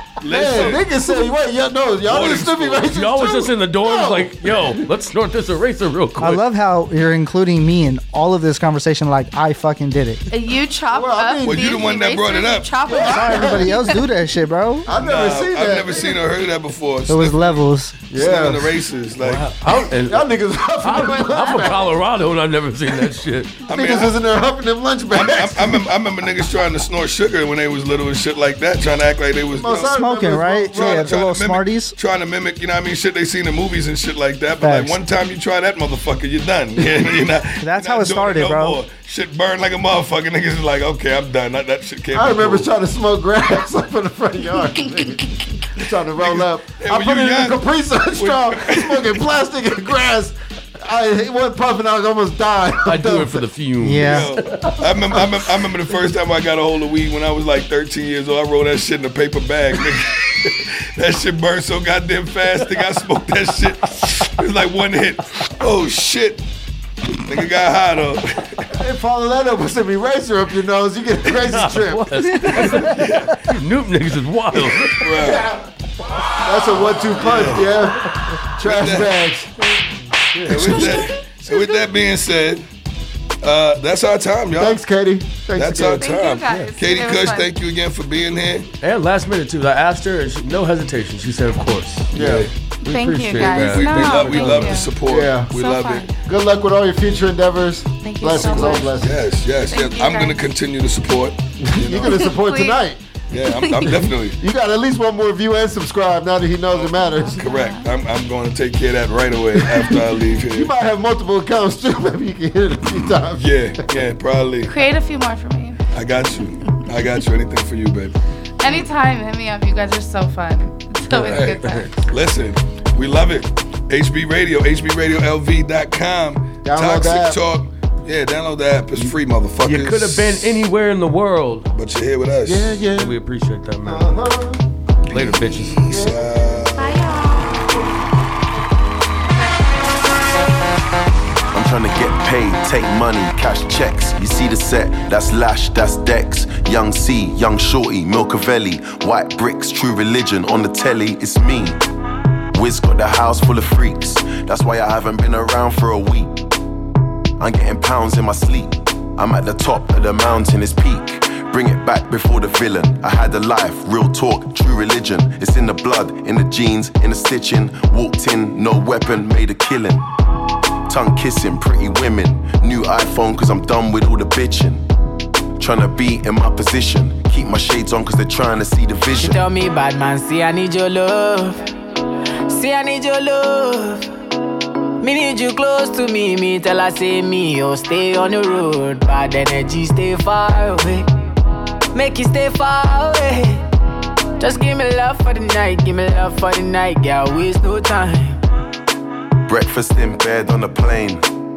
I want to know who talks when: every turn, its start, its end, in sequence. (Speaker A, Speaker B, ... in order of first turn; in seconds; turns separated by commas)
Speaker A: 0.2-0.9, Speaker B: 0.3-4.7, Speaker A: 2.0-2.9, Speaker C: 2.9-6.4, Speaker D: 6.2-10.2, Speaker E: 10.3-14.0, Speaker B: 10.9-11.7, Speaker A: 11.4-12.9, Speaker B: 12.9-13.7, Speaker D: 12.9-14.9, Speaker B: 14.9-16.2, Speaker A: 14.9-17.5, Speaker D: 17.1-17.9, Speaker B: 18.1-18.7, Speaker A: 18.1-19.5, Speaker C: 19.2-20.3, Speaker B: 20.1-21.9, Speaker C: 20.8-23.6, Speaker A: 23.7-24.1, Speaker B: 23.7-25.8, Speaker A: 25.1-29.9, Speaker B: 29.6-31.2, Speaker D: 29.9-31.9, Speaker A: 30.7-42.7, Speaker D: 34.6-35.0, Speaker D: 37.6-38.8, Speaker B: 42.1-53.4, Speaker A: 46.1-47.6, Speaker A: 48.1-49.1, Speaker C: 52.9-55.2, Speaker D: 53.8-54.3, Speaker A: 54.0-66.4, Speaker A: 67.2-68.6, Speaker B: 68.8-72.8, Speaker C: 71.4-72.8, Speaker A: 72.8-73.3, Speaker C: 73.4-75.0, Speaker A: 74.5-75.5, Speaker B: 76.4-78.0, Speaker A: 77.2-77.7, Speaker B: 78.6-79.5, Speaker A: 78.6-79.1, Speaker C: 80.3-80.9, Speaker A: 80.5-82.6, Speaker A: 83.4-84.8, Speaker B: 84.5-86.0, Speaker A: 85.5-88.7, Speaker E: 85.8-87.5, Speaker C: 88.8-92.1, Speaker B: 92.1-92.5, Speaker A: 92.1-92.5, Speaker E: 92.8-95.0, Speaker C: 92.8-94.8, Speaker A: 93.4-96.1, Speaker B: 95.1-95.5, Speaker E: 95.5-96.2, Speaker B: 96.2-99.2, Speaker E: 98.0-99.0, Speaker A: 98.3-102.3, Speaker E: 99.7-100.5, Speaker B: 101.6-103.0, Speaker E: 102.1-102.8, Speaker A: 103.3-104.4, Speaker E: 103.5-103.9, Speaker B: 104.4-107.4, Speaker A: 106.7-110.7, Speaker E: 107.0-107.9, Speaker B: 109.6-110.0, Speaker B: 110.5-113.5, Speaker A: 113.4-114.7, Speaker E: 114.7-115.8, Speaker A: 115.9-118.1, Speaker E: 118.6-122.1, Speaker C: 121.1-121.9, Speaker A: 121.3-121.5, Speaker A: 122.1-130.5, Speaker B: 126.6-127.4, Speaker C: 128.9-131.7, Speaker A: 131.7-132.8, Speaker B: 132.4-133.2, Speaker C: 133.0-134.1, Speaker B: 133.8-134.6, Speaker C: 135.1-135.8, Speaker A: 135.1-137.0, Speaker B: 135.4-136.3, Speaker E: 136.8-137.6, Speaker F: 141.5-151.8, Speaker F: 152.5-156.3, Speaker F: 157.4-170.0, Speaker F: 170.9-174.8, Speaker F: 175.6-179.4, Speaker G: 179.1-181.6, Speaker G: 182.5-184.1, Speaker G: 185.0-191.1, Speaker G: 191.9-193.6, Speaker G: 194.4-198.4, Speaker F: 199.4-201.2